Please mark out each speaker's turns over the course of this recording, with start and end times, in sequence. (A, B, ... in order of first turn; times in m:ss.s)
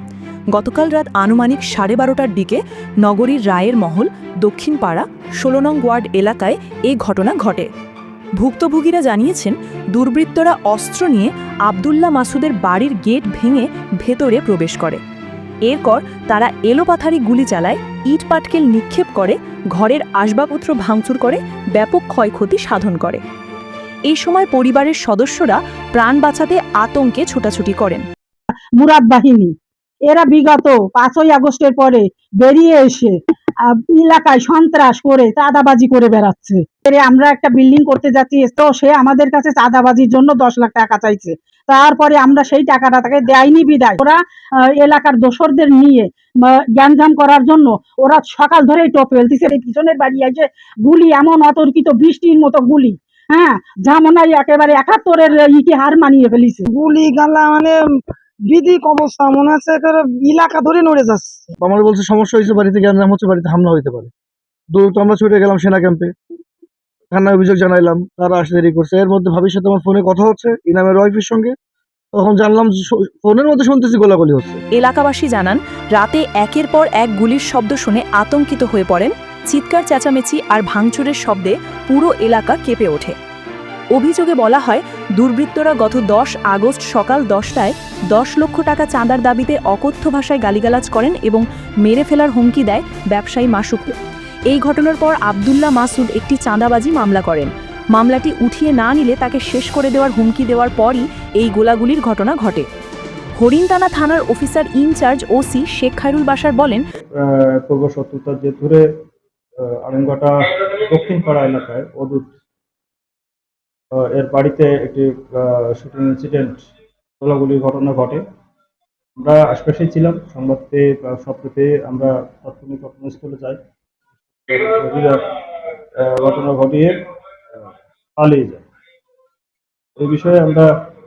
0:00.5-0:07.7 A
0:08.4-0:15.0 A
0:15.6-0:23.2 A
0:24.1-0:28.0 A
0:28.8-0:29.5 B
0:30.1-0:33.1 B
0:33.7-0:44.2 B
0:44.8-0:56.6 B
0:56.7-0:57.8 C
0:58.5-1:01.5 C
1:01.6-1:04.1 D
1:04.7-1:06.1 D
1:07.1-1:11.5 D
1:12.1-1:14.6 D
1:14.7-1:23.1 A
1:23.9-1:33.9 A
1:34.5-1:42.7 A
1:43.4-1:46.8 A
1:47.1-1:48.8 E
1:49.6-1:52.3 E
1:53.9-1:56.6 E
1:57.2-1:58.2 E
1:59.2-2:03.6 E
2:04.5-2:05.2 E
2:06.0-2:07.0 E
2:08.2-2:08.6 E
2:10.0-2:10.7 E